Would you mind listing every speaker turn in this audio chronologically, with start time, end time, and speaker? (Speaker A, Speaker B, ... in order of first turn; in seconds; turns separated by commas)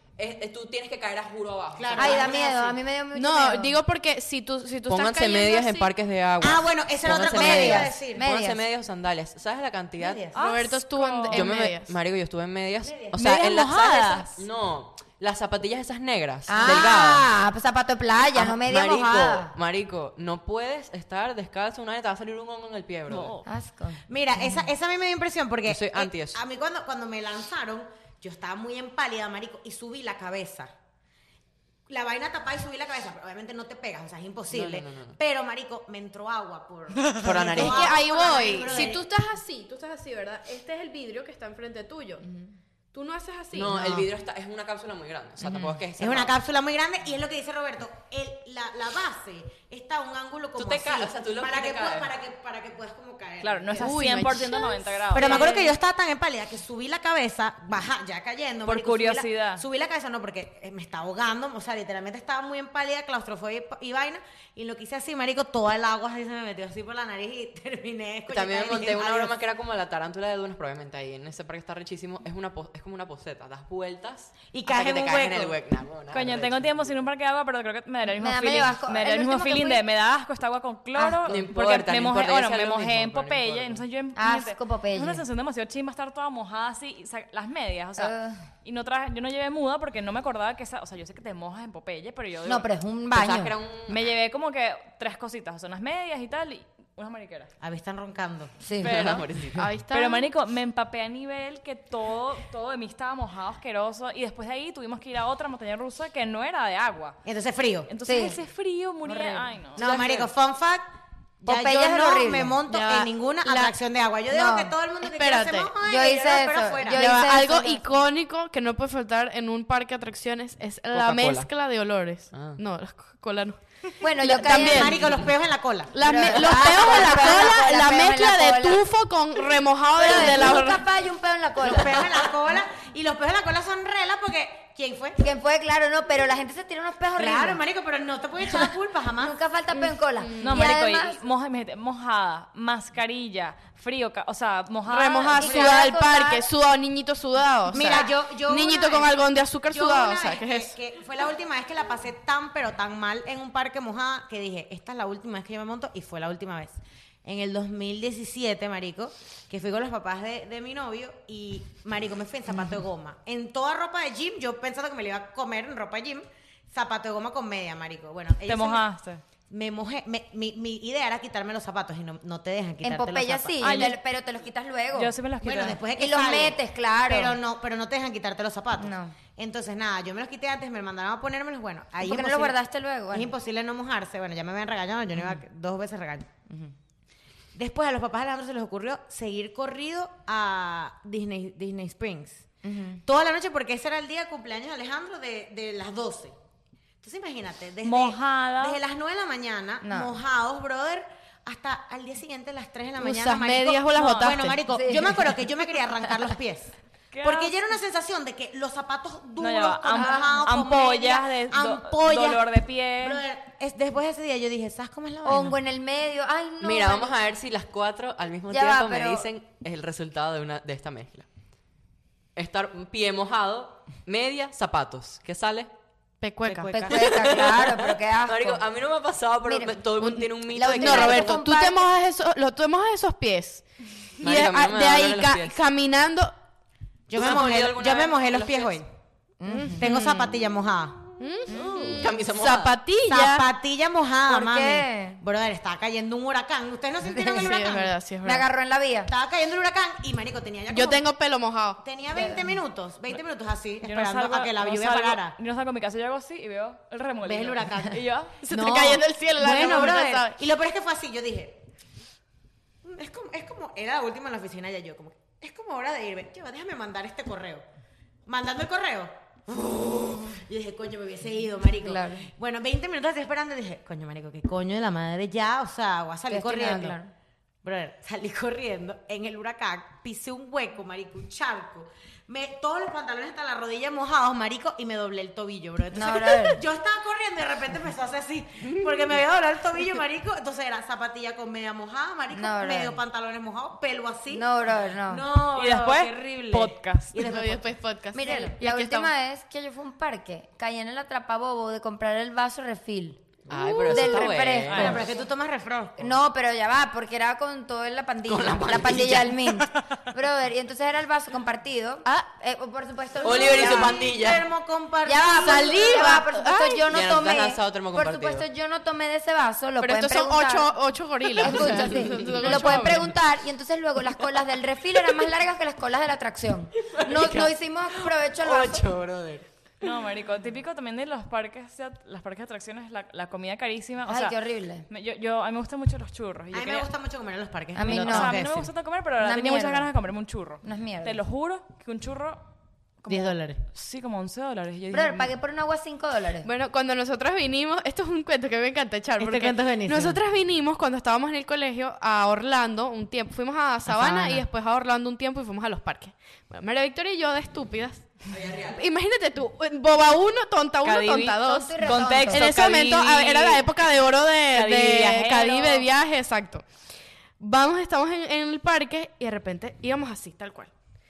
Speaker A: 0.2-2.4, Speaker B: 1.8-2.8, Speaker C: 1.9-3.8, Speaker D: 3.1-5.9, Speaker A: 4.9-10.3, Speaker B: 6.4-8.2, Speaker C: 7.0-8.6, Speaker B: 10.0-10.3, Speaker E: 10.3-11.4, Speaker D: 10.3-11.9, Speaker A: 11.3-17.3, Speaker B: 12.8-13.2, Speaker E: 13.1-14.4, Speaker C: 16.5-19.5, Speaker B: 16.6-17.0, Speaker A: 18.3-23.4, Speaker E: 23.1-23.5, Speaker C: 23.4-24.0, Speaker B: 24.1-30.7, Speaker A: 25.7-26.4, Speaker B: 31.9-39.0, Speaker A: 34.5-35.2, Speaker A: 37.2-38.0, Speaker D: 37.5-42.2, Speaker D: 42.9-44.0, Speaker A: 43.5-46.4, Speaker B: 46.0-54.3, Speaker A: 50.6-52.1, Speaker E: 53.4-55.7, Speaker D: 53.8-55.4, Speaker B: 55.1-69.3, Speaker E: 58.7-59.6, Speaker A: 68.3-76.9, Speaker B: 74.5-75.6, Speaker E: 76.1-92.7, Speaker C: 78.1-79.8, Speaker C: 81.0-81.3, Speaker A: 81.3-83.8, Speaker C: 84.2-85.2, Speaker C: 88.0-88.4, Speaker C: 92.5-93.5, Speaker A: 93.1-94.0, Speaker E: 93.9-97.5, Speaker B: 97.6-98.5, Speaker C: 98.6-99.0, Speaker E: 98.8-99.3, Speaker A: 98.8-99.7, Speaker D: 99.5-100.3, Speaker E: 99.9-107.2, Speaker B: 107.2-107.9, Speaker E: 107.9-110.2, Speaker C: 108.0-108.4, Speaker C: 109.0-109.5, Speaker B: 109.8-110.8, Speaker A: 109.8-110.2, Speaker B: 111.4-117.0, Speaker C: 111.5-112.6, Speaker D: 112.7-113.7, Speaker C: 114.3-114.7, Speaker D: 115.0-115.7, Speaker C: 115.8-117.9, Speaker D: 116.9-125.1, Speaker A: 120.9-121.5, Speaker A: 122.3-122.6, Speaker C: 124.0-125.0, Speaker B: 124.4-127.3, Speaker D: 125.9-130.8, Speaker C: 126.0-128.8, Speaker C: 129.9-132.3, Speaker B: 130.1-130.3, Speaker B: 131.6-135.2, Speaker C: 135.2-137.6, Speaker B: 137.2-139.4, Speaker C: 138.4-141.2, Speaker D: 140.2-140.8, Speaker E: 140.4-145.7, Speaker D: 144.9-150.8, Speaker C: 145.4-146.5, Speaker B: 147.7-149.2, Speaker B: 149.7-168.8, Speaker E: 168.5-169.2, Speaker B: 169.5-173.9, Speaker C: 172.8-175.1, Speaker E: 173.6-174.0, Speaker E: 174.9-175.8, Speaker B: 175.4-182.6, Speaker C: 176.0-177.4, Speaker C: 178.8-179.2, Speaker C: 182.0-183.3, Speaker B: 183.1-186.3, Speaker B: 187.6-196.3, Speaker C: 192.6-193.0, Speaker B: 197.0-215.6, Speaker E: 197.8-198.8, Speaker C: 199.8-200.2, Speaker D: 203.0-204.6, Speaker E: 203.9-204.3, Speaker C: 204.7-205.3, Speaker E: 207.1-207.5, Speaker E: 209.4-213.2, Speaker C: 209.9-210.4, Speaker C: 215.2-217.2, Speaker A: 216.6-221.3, Speaker C: 218.5-219.3, Speaker A: 222.4-225.7, Speaker D: 226.2-226.9, Speaker A: 226.4-231.4, Speaker C: 226.7-228.7, Speaker C: 229.4-229.9, Speaker D: 230.0-233.7, Speaker C: 230.5-231.9, Speaker D: 234.2-236.3, Speaker A: 234.2-235.6, Speaker B: 237.1-238.8, Speaker A: 237.1-238.8, Speaker C: 239.4-240.1, Speaker D: 239.5-240.2, Speaker B: 239.8-241.1, Speaker D: 241.2-243.5, Speaker C: 241.5-242.0, Speaker A: 241.5-242.8, Speaker B: 243.1-247.9, Speaker C: 244.3-245.2, Speaker C: 247.0-247.5, Speaker D: 247.3-248.4, Speaker C: 248.2-249.1, Speaker B: 249.1-251.1, Speaker D: 250.7-251.8, Speaker B: 251.8-255.4, Speaker C: 252.1-252.6, Speaker E: 253.8-258.4, Speaker B: 257.2-261.6, Speaker D: 258.4-260.4, Speaker B: 262.8-267.6, Speaker B: 268.3-277.0, Speaker C: 271.8-272.3, Speaker C: 276.3-277.1, Speaker B: 277.6-294.5, Speaker C: 285.9-286.6, Speaker C: 292.3-293.0, Speaker C: 294.3-295.3, Speaker B: 295.1-298.6, Speaker E: 295.6-297.2, Speaker D: 297.2-299.1, Speaker C: 298.1-305.1, Speaker A: 303.5-305.0, Speaker E: 304.7-305.0, Speaker B: 304.7-306.1, Speaker C: 306.0-314.1, Speaker A: 308.3-309.7, Speaker B: 313.2-316.2, Speaker A: 313.2-314.5, Speaker C: 315.1-320.7, Speaker D: 315.5-316.8, Speaker A: 316.9-318.4, Speaker D: 319.8-323.1, Speaker C: 321.4-328.9, Speaker A: 321.7-322.7, Speaker A: 326.8-329.5, Speaker E: 329.8-334.4, Speaker C: 334.1-334.9, Speaker E: 334.9-336.9, Speaker B: 336.5-338.7, Speaker C: 337.8-338.4, Speaker E: 337.8-342.4, Speaker C: 339.2-339.9, Speaker C: 340.6-341.2, Speaker E: 343.0-345.3, Speaker B: 343.1-343.6, Speaker C: 344.9-346.5, Speaker D: 346.4-358.1, Speaker B: 349.2-350.2, Speaker C: 354.0-354.4, Speaker A: 358.3-358.9, Speaker D: 358.7-366.7, Speaker E: 360.8-363.7, Speaker C: 361.5-362.5, Speaker E: 364.5-365.9, Speaker D: 367.4-370.7